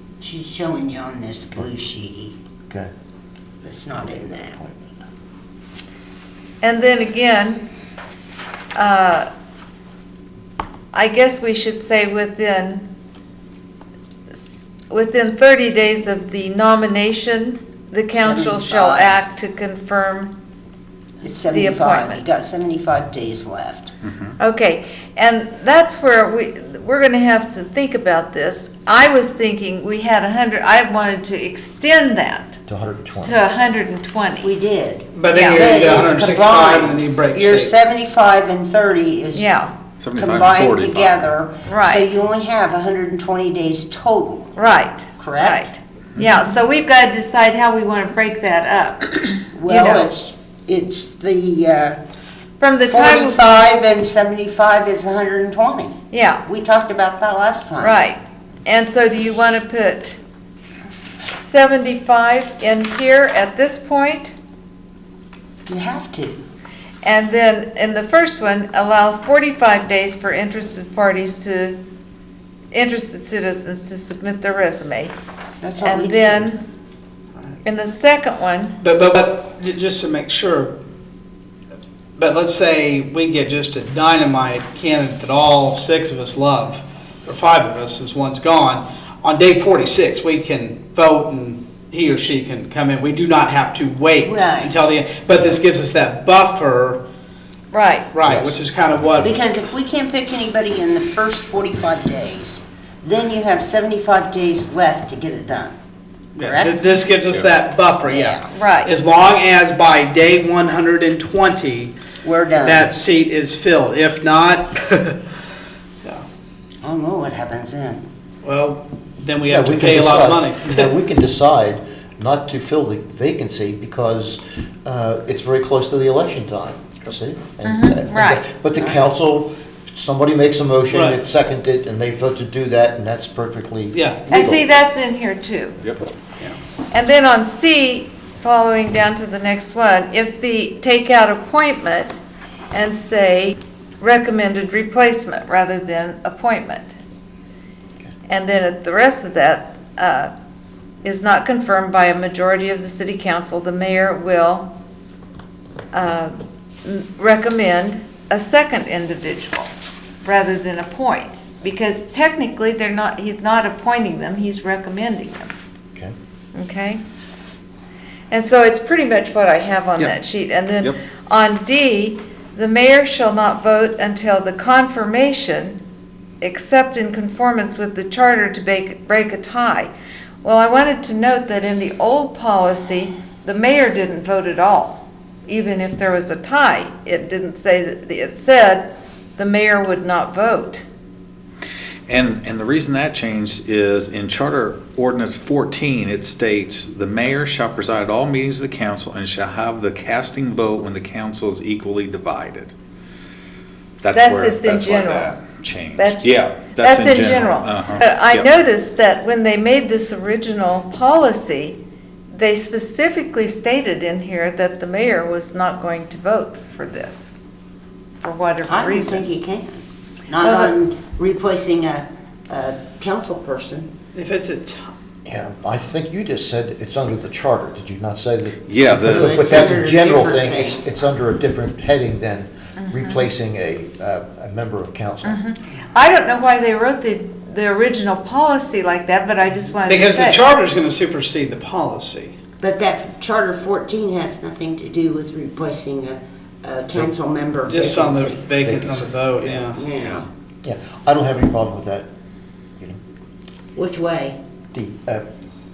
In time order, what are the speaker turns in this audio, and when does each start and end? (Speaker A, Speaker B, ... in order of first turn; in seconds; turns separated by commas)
Speaker A: 0.2-2.4, Speaker A: 3.6-4.7, Speaker B: 6.6-7.6, Speaker B: 8.7-9.3, Speaker B: 10.9-12.9, Speaker B: 14.3-20.3, Speaker A: 18.1-19.2, Speaker A: 21.2-23.9, Speaker B: 21.5-22.2, Speaker B: 24.4-32.6, Speaker C: 32.7-33.4, Speaker B: 33.1-34.5, Speaker A: 34.4-39.5, Speaker D: 35.1-37.7, Speaker B: 35.3-35.9, Speaker B: 39.3-39.7, Speaker E: 40.0-41.3, Speaker A: 40.1-44.5, Speaker B: 41.6-42.1, Speaker B: 44.5-50.1, Speaker A: 45.2-45.7, Speaker A: 49.5-52.0, Speaker B: 52.6-53.4, Speaker A: 52.9-58.0, Speaker B: 56.1-56.4, Speaker B: 57.8-60.2, Speaker B: 61.3-64.3, Speaker A: 65.7-66.5, Speaker B: 67.0-71.8, Speaker B: 72.7-75.1, Speaker A: 75.6-76.5, Speaker B: 75.8-76.6, Speaker B: 77.6-78.8, Speaker D: 78.8-80.7, Speaker D: 82.2-97.0, Speaker A: 94.2-94.8, Speaker B: 97.7-98.1, Speaker D: 98.1-99.3, Speaker C: 98.2-98.6, Speaker A: 99.2-105.8, Speaker A: 106.3-106.8, Speaker D: 106.4-111.9, Speaker E: 107.3-107.5, Speaker A: 108.0-108.5, Speaker B: 108.5-108.9, Speaker A: 112.2-112.9, Speaker D: 112.5-115.2, Speaker A: 116.8-118.0, Speaker D: 118.4-120.9, Speaker C: 119.5-134.7, Speaker B: 127.6-128.4, Speaker D: 130.9-131.2, Speaker D: 133.9-134.2, Speaker B: 134.3-135.8, Speaker B: 136.9-142.1, Speaker B: 142.7-146.9, Speaker B: 148.3-150.3, Speaker B: 151.0-154.7, Speaker B: 155.9-159.7, Speaker B: 160.2-165.5, Speaker B: 166.5-167.0, Speaker B: 168.3-175.8, Speaker B: 176.4-179.9, Speaker B: 180.4-190.8, Speaker E: 192.1-202.7, Speaker E: 204.0-208.5, Speaker B: 204.1-205.4, Speaker B: 205.9-211.8, Speaker B: 212.3-217.3, Speaker B: 218.2-219.3, Speaker A: 218.7-223.9, Speaker B: 220.4-220.8, Speaker D: 224.1-224.9, Speaker C: 225.2-235.4, Speaker E: 228.7-229.8, Speaker A: 229.0-230.8, Speaker B: 232.8-233.1, Speaker B: 235.2-240.4, Speaker D: 239.8-242.3, Speaker A: 242.6-248.5, Speaker D: 247.7-249.8, Speaker C: 248.6-249.7, Speaker A: 249.7-250.3, Speaker E: 249.9-250.2, Speaker C: 250.6-252.1, Speaker A: 253.7-254.3, Speaker C: 254.7-255.2